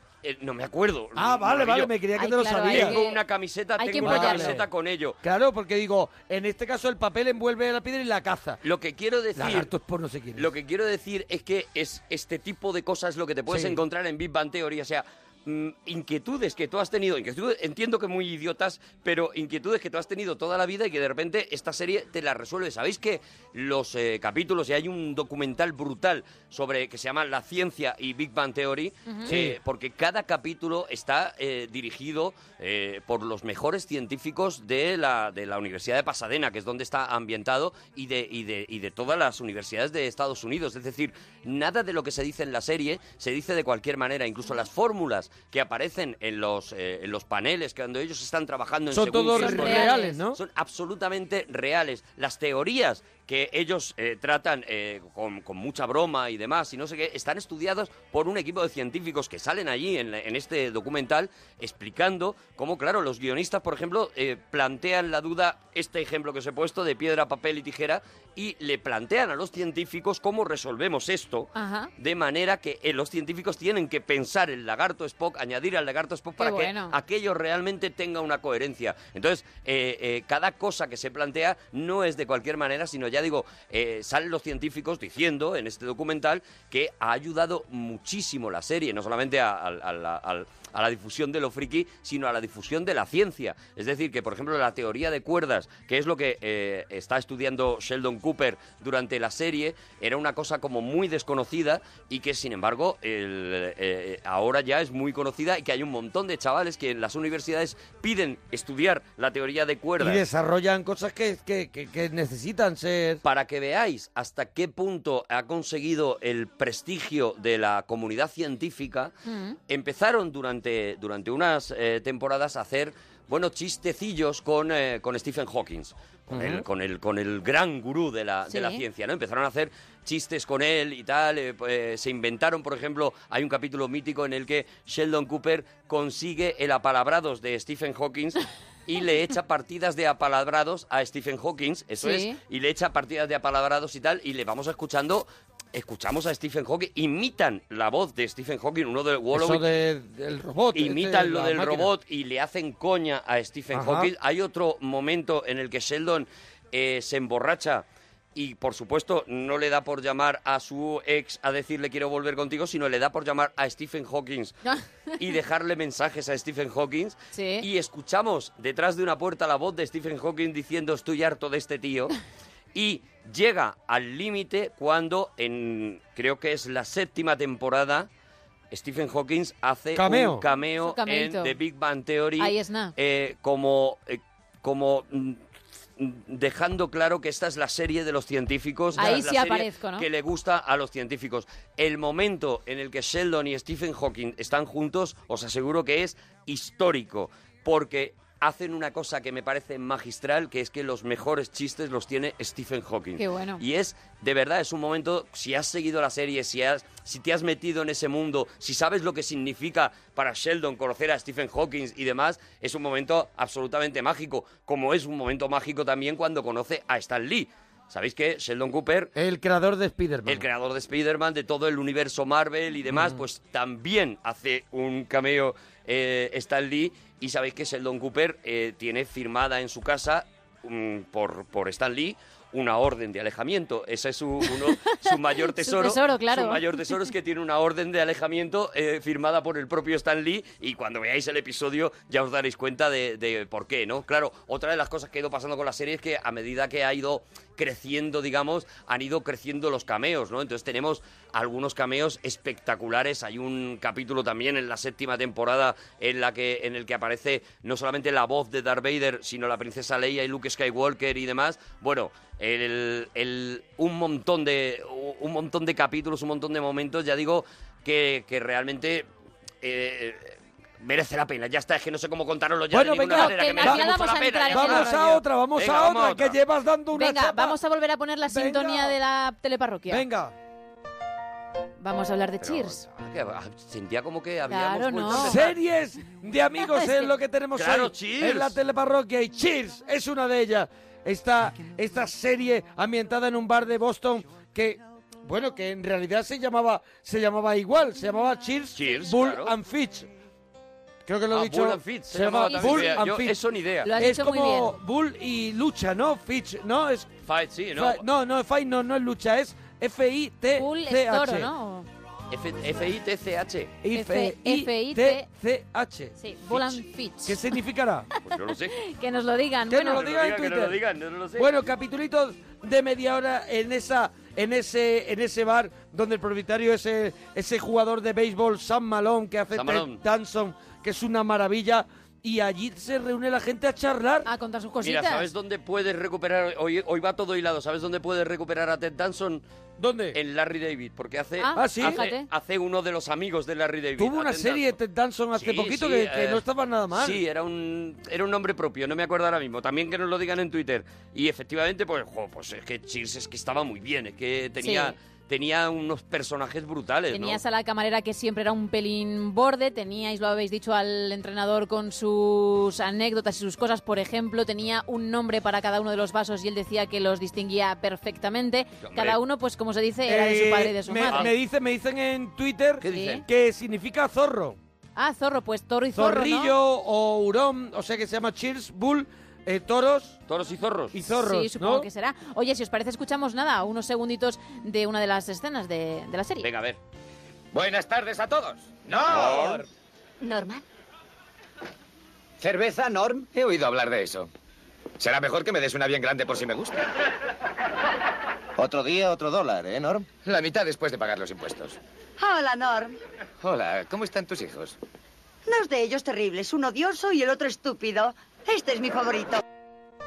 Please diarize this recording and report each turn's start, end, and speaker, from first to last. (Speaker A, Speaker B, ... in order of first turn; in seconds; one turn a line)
Speaker A: 0.2-1.9
Speaker B: 1.1-3.0
Speaker C: 2.1-3.2
Speaker A: 2.6-5.2
Speaker C: 3.8-4.6
Speaker B: 4.0-4.6
Speaker B: 5.2-8.6
Speaker A: 8.6-9.7
Speaker B: 9.4-10.5
Speaker A: 10.3-110.2
Speaker B: 13.5-13.8
Speaker B: 29.3-29.6
Speaker B: 48.9-50.4
Speaker C: 49.4-50.2
Speaker C: 71.5-71.9
Speaker C: 76.4-76.9
Speaker B: 110.0-113.2
Speaker A: 113.2-119.1
Speaker C: 119.2-119.6
Speaker A: 119.7-149.6
Speaker B: 126.3-126.6
Speaker C: 128.5-128.8
Speaker C: 142.0-142.4
Speaker B: 149.3-151.9
Speaker A: 150.7-164.6
Speaker B: 153.7-154.1
Speaker A: 165.2-172.1
Speaker C: 167.3-167.7
Speaker A: 172.7-178.1
Speaker A: 178.7-185.4
Speaker B: 179.9-180.4
Speaker C: 180.8-181.6
Speaker C: 182.4-182.9
Speaker A: 186.0-219.1
Speaker C: 189.0-190.1
Speaker C: 203.2-203.6
Speaker B: 219.2-220.4
Speaker A: 220.2-269.1
Speaker B: 222.9-223.2
Speaker C: 234.8-236.8
Speaker A: 269.6-276.4
Speaker B: 272.7-277.6
Speaker C: 273.1-274.9
Speaker C: 276.9-280.1
Speaker B: 278.3-279.0
Speaker B: 279.9-280.3
Speaker C: 281.8-282.8
Speaker A: 282.4-285.6
Speaker C: 284.5-285.4
Speaker B: 285.1-300.1
Speaker C: 286.7-287.1
Speaker A: 287.6-288.6
Speaker A: 298.7-299.5
Speaker B: 301.1-303.4
Speaker A: 301.3-303.9
Speaker C: 302.5-303.0
Speaker C: 303.8-304.7
Speaker B: 303.9-307.1
Speaker A: 307.2-308.0
Speaker B: 307.7-311.5
Speaker C: 310.5-311.9
Speaker A: 312.3-313.9
Speaker B: 313.8-316.1
Speaker C: 313.9-315.2
Speaker C: 316.2-317.5
Speaker A: 316.5-316.8
Speaker B: 317.2-318.1
Speaker A: 318.2-318.8
Speaker C: 318.8-320.0
Speaker B: 319.7-320.7
Speaker A: 319.8-321.5
Speaker B: 321.4-334.3
Speaker A: 329.5-330.0
Speaker C: 334.2-335.3
Speaker A: 334.8-339.4
Speaker B: 339.8-340.2
Speaker A: 340.1-344.7
Speaker C: 341.4-342.3
Speaker B: 341.6-342.0
Speaker B: 344.0-347.2
Speaker A: 345.3-357.4
Speaker C: 354.6-354.9
Speaker C: 357.1-371.3
Speaker A: 368.8-369.2
Speaker B: 370.1-374.6
Speaker A: 371.1-371.3
Speaker A: 372.8-373.2
Speaker C: 372.9-373.2
Speaker C: 374.9-376.5
Speaker B: 375.9-380.2
Speaker A: 380.3-380.9
Speaker B: 380.9-381.9
Speaker C: 381.1-386.5
Speaker A: 386.4-386.8
Speaker D: 387.5-389.6
Speaker E: 390.2-390.6
Speaker D: 392.4-394.3
Speaker D: 395.0-396.8
Speaker D: 398.6-401.8
Speaker E: 402.2-403.0
Speaker D: 403.4-404.8
Speaker E: 405.5-409.4